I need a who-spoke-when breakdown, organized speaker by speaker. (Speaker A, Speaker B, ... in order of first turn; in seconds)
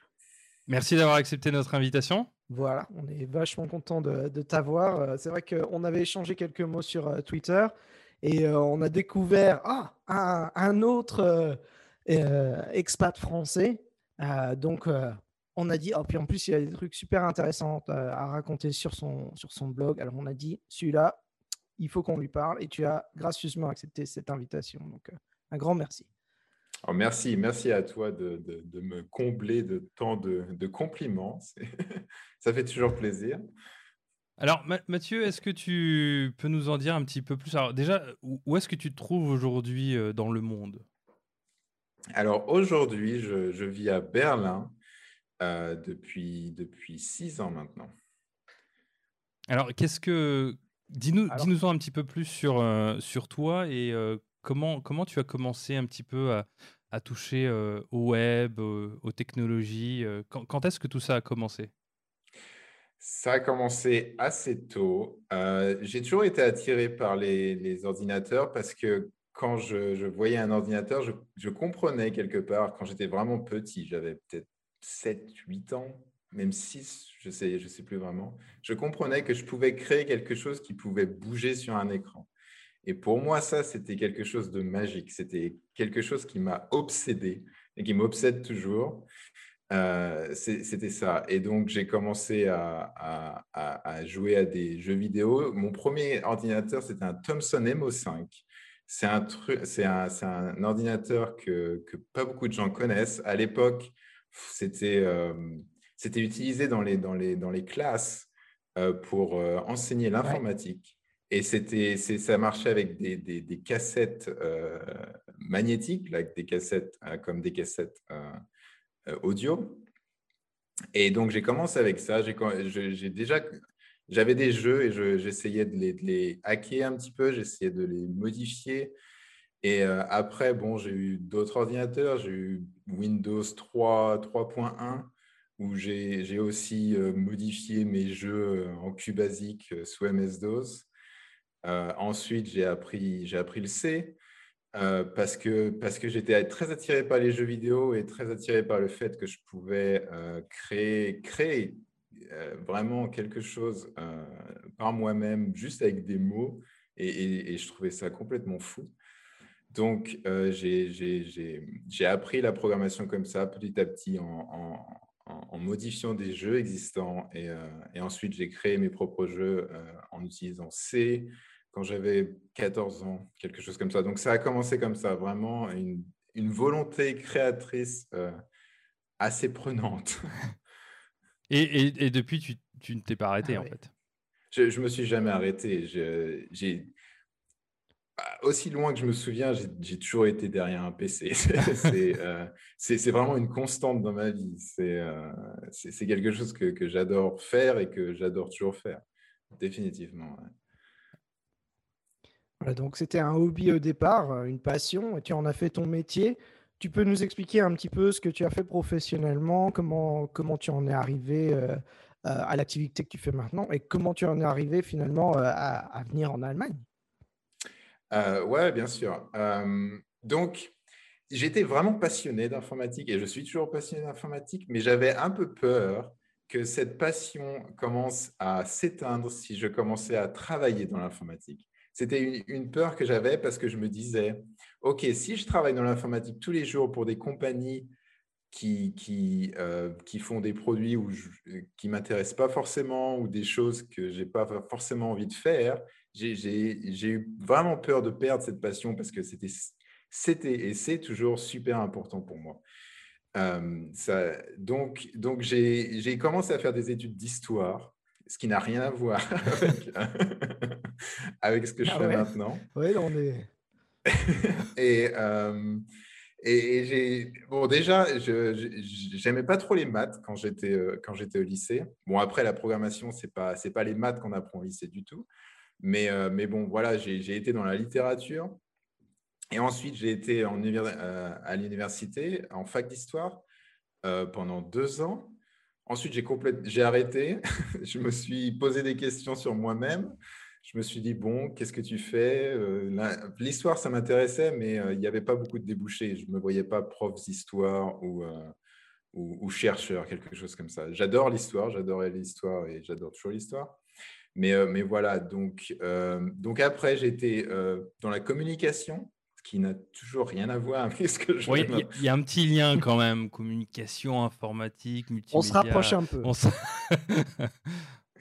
Speaker A: 0.7-2.3, 34.4-40.8, 49.5-61.7, 181.5-183.9, 311.5-317.8
Speaker B: 2.5-21.2, 21.8-26.1, 202.6-216.8, 261.8-263.5, 315.3-316.3
Speaker C: 26.9-33.4, 42.1-44.7, 45.4-47.9, 63.0-82.3, 82.8-89.1, 89.7-118.4, 119.0-119.8, 120.9-123.5, 124.1-128.9, 129.6-140.9, 141.6-144.2, 144.7-158.9, 159.7-178.3, 179.2-180.3, 184.5-186.9, 188.2-199.0, 199.6-200.5, 218.1-220.7, 221.3-237.9, 238.5-252.6, 253.3-262.6, 264.1-265.8, 266.4-275.3, 275.8-278.6, 279.5-283.4, 284.0-298.5, 299.1-303.8, 304.3-311.9